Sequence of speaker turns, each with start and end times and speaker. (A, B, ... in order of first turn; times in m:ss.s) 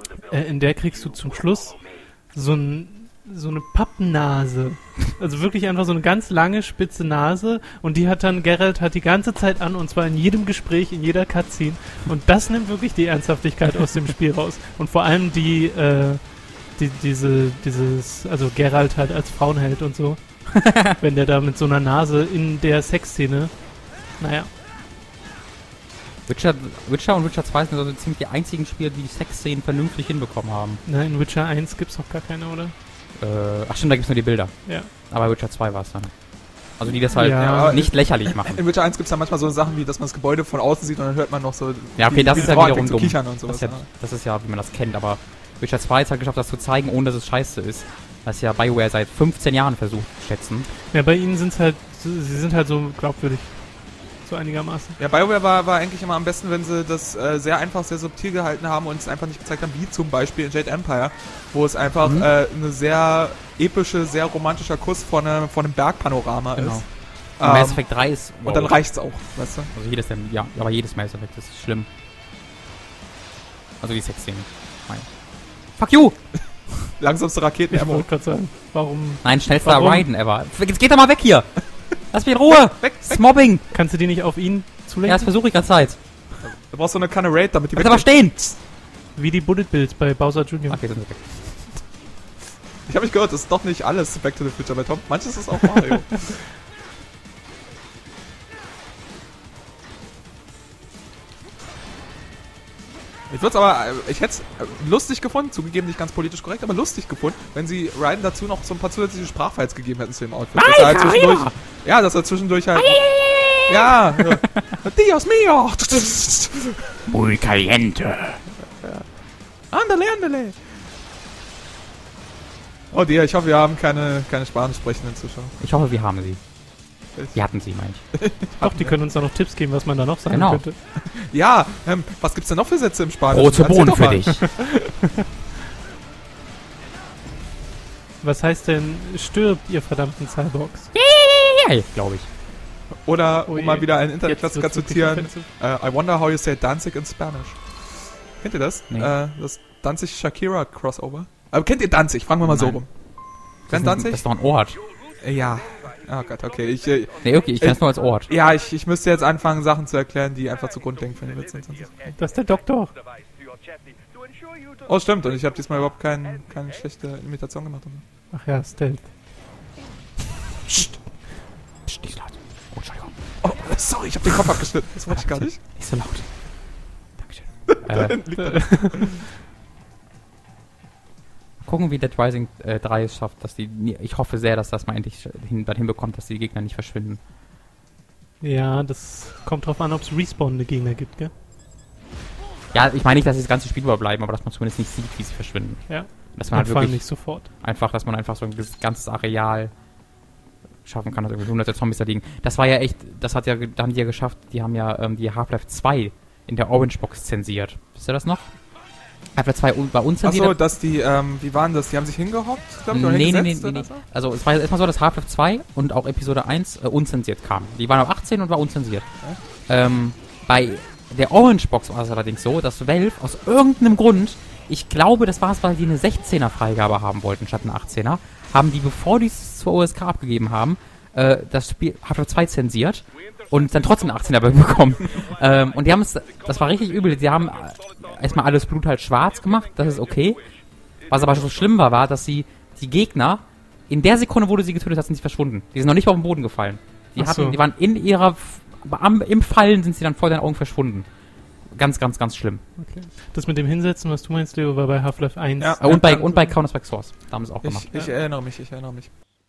0:00.2-0:24.5 A
0:20.6-0:20.8 B
0:26.3-0:30.8 B
0:30.8-0:32.8 A
0:33.2-0:38.6 B
0:34.6-0:34.9 A
0:36.9-0:43.9 C
0:37.1-0:37.8 A
0:42.0-0:50.7 B
0:42.3-0:42.8 A
0:50.7-0:55.0 A
0:55.0-1:06.9 C
1:02.0-1:02.3 B
1:06.6-1:09.1 B
1:07.4-1:07.9 C
1:08.4-1:09.7 C
1:09.7-1:11.9 B
1:13.8-1:15.1 B
1:15.7-1:16.2 B
1:17.0-1:18.1 C
1:17.7-1:20.1 A
1:19.2-1:23.7 B
1:22.7-1:23.3 C
1:23.7-1:25.5 A
1:25.0-1:26.0 B
1:26.4-1:28.1 C
1:27.7-1:28.6 B
1:29.1-1:31.2 A
1:30.7-1:31.8 B
1:32.9-1:36.4 C
1:43.3-1:53.0 C
1:50.6-1:51.6 B
1:52.8-1:54.7 B
1:53.6-1:57.0 C
1:57.1-1:58.4 B
1:58.6-1:59.1 C
1:59.7-2:00.8 C
2:02.9-2:05.6 C
2:05.6-2:06.4 B
2:07.2-2:07.4 C
2:07.3-2:08.0 B
2:08.1-2:09.0 C
2:08.6-2:10.8 A
2:10.3-2:10.6 B
2:11.0-2:14.8 C
2:13.3-2:14.5 B
2:18.2-2:20.9 A
2:20.9-2:22.3 B
2:23.0-2:27.6 C
2:23.5-2:25.5 A
2:28.4-2:32.9 C
2:32.4-2:32.8 B
2:33.7-2:34.8 B
2:33.7-2:34.3 C
2:35.2-2:42.2 C
2:37.2-2:38.3 B
2:42.2-2:42.9 A
2:44.9-2:48.0 C
2:48.3-2:49.1 A
2:51.8-2:53.5 B
2:53.4-2:55.6 C
2:54.2-2:58.2 B
2:57.7-2:59.3 C
2:58.3-2:59.1 A
3:01.6-3:07.2 B
3:08.4-3:11.3 A
3:12.7-3:19.8 B
3:15.9-3:17.5 A
3:20.8-3:28.6 B
3:29.4-3:30.6 B
3:30.2-3:34.1 C
3:32.9-3:39.1 B
3:39.7-4:11.1 B
4:07.2-4:07.6 A
4:11.7-4:12.6 B
4:12.8-4:16.6 A
4:15.6-4:16.2 C
4:15.8-4:17.9 B
4:17.6-4:19.1 C
4:17.9-4:18.2 A